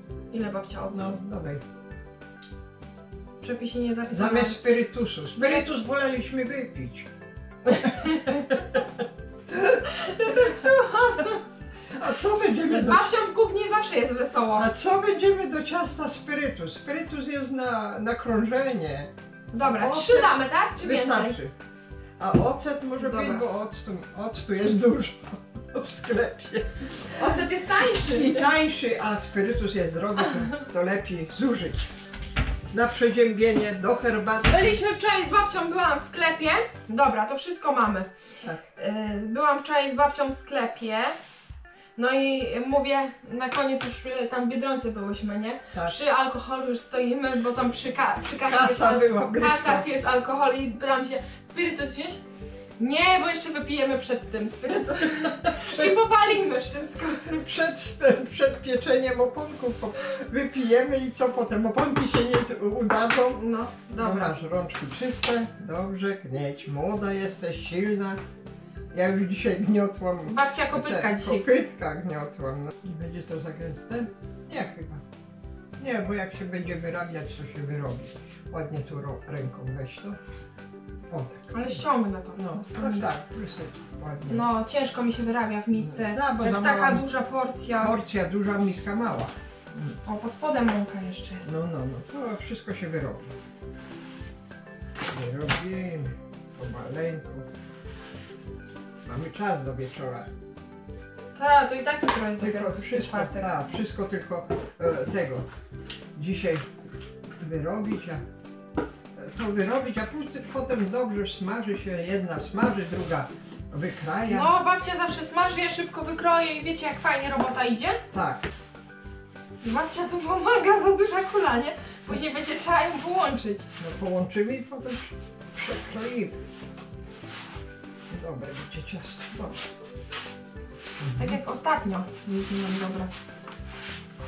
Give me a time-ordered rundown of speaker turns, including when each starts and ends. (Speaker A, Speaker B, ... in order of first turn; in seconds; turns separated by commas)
Speaker A: 0.3-1.2, Speaker B: 0.9-1.6, Speaker A: 3.4-4.6, Speaker B: 4.1-7.1, Speaker A: 5.3-5.7, Speaker B: 7.7-8.8, Speaker A: 7.7-8.4, Speaker B: 9.5-10.6, Speaker A: 9.8-11.4, Speaker B: 11.9-13.1, Speaker A: 12.7-14.7, Speaker B: 14.6-21.5, Speaker A: 19.5-21.4, Speaker B: 22.2-31.9, Speaker A: 23.0-23.4, Speaker A: 27.2-28.5, Speaker B: 32.7-34.8, Speaker A: 34.5-38.1, Speaker A: 38.8-41.2, Speaker A: 42.0-52.2, Speaker B: 48.5-49.9, Speaker A: 52.8-57.5, Speaker B: 55.6-55.9, Speaker B: 57.4-63.4, Speaker A: 63.3-64.3, Speaker B: 64.0-68.2, Speaker B: 68.9-75.0, Speaker A: 70.3-71.5, Speaker B: 75.8-80.2, Speaker B: 81.1-81.8, Speaker A: 81.5-83.1, Speaker B: 82.4-84.5, Speaker A: 84.3-87.9, Speaker B: 85.7-87.1, Speaker B: 87.8-90.0, Speaker A: 90.1-91.5, Speaker B: 91.5-93.3, Speaker B: 95.1-97.5, Speaker B: 99.0-100.3, Speaker A: 101.3-103.5, Speaker B: 102.4-105.5, Speaker B: 106.2-106.7, Speaker B: 107.4-108.2, Speaker B: 109.2-114.5, Speaker A: 114.3-118.0, Speaker B: 118.1-118.5, Speaker A: 119.6-123.7, Speaker B: 123.8-126.4, Speaker B: 128.1-129.6, Speaker B: 131.0-131.4, Speaker A: 131.2-133.1